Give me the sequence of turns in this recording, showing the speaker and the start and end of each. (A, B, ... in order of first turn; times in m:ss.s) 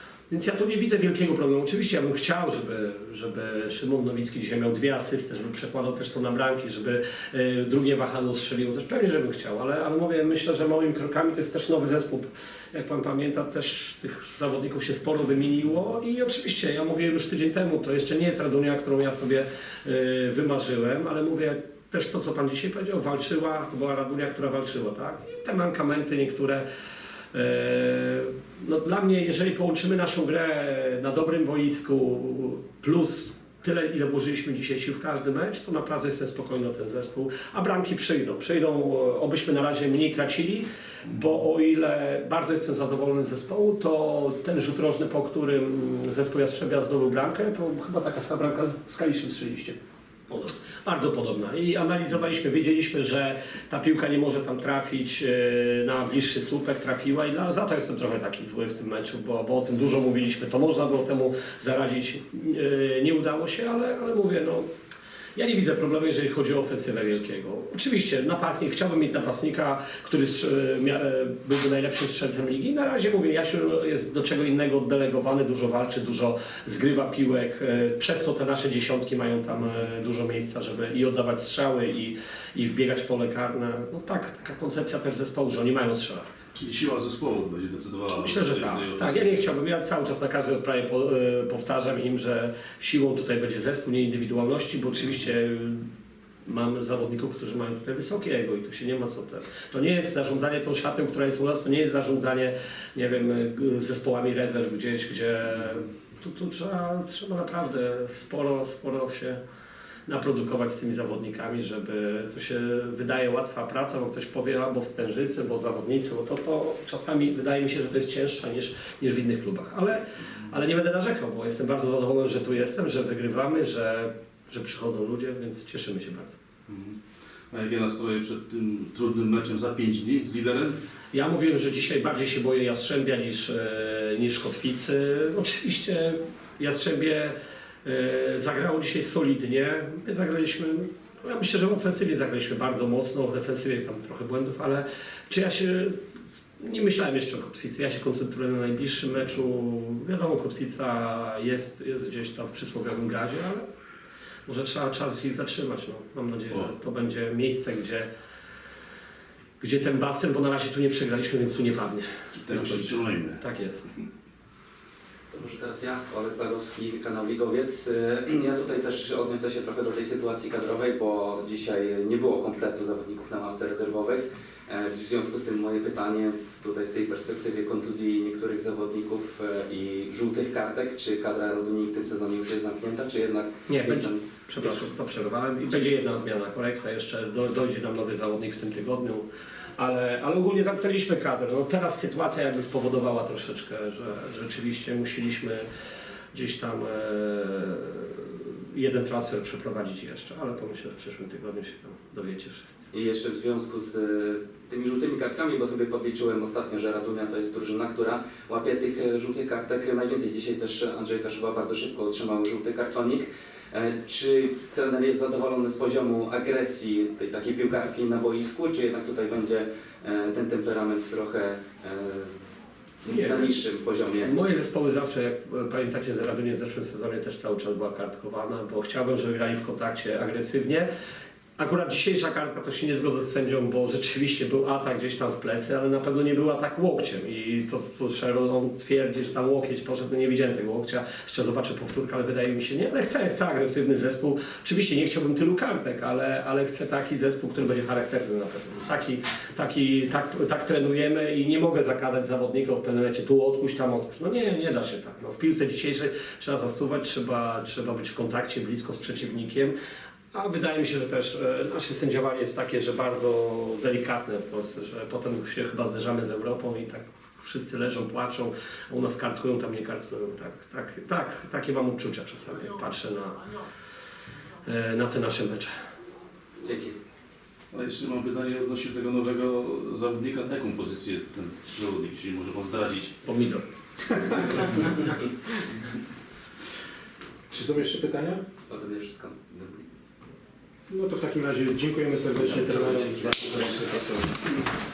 0:00.3-0:26.6 A
0:27.3-1:04.6 A
1:05.4-1:26.3 A
1:26.5-1:29.4 B
1:28.2-1:35.8 A
1:36.4-1:49.4 A
1:50.1-2:06.4 A
2:06.7-2:07.0 B
2:07.5-2:10.8 B
2:11.1-2:26.0 A
2:26.6-2:33.6 A
2:34.5-2:38.1 A
2:39.6-2:43.9 A
2:42.4-2:43.4 B
2:45.3-3:04.2 C
3:03.7-3:09.2 A
3:09.8-3:15.7 A
3:16.3-3:22.7 A
3:22.9-3:42.3 C
3:43.0-3:44.3 C
3:43.1-3:43.6 A
3:44.2-3:50.9 A
3:51.6-4:19.7 A
4:20.3-4:33.4 A
4:34.6-4:35.7 A
4:36.6-4:37.0 C
4:37.7-4:43.2 B
4:43.2-4:43.6 A
4:44.2-4:44.9 D
4:47.5-4:48.5 D
4:48.6-4:49.8 C
4:50.9-4:54.2 D
4:52.5-4:54.0 C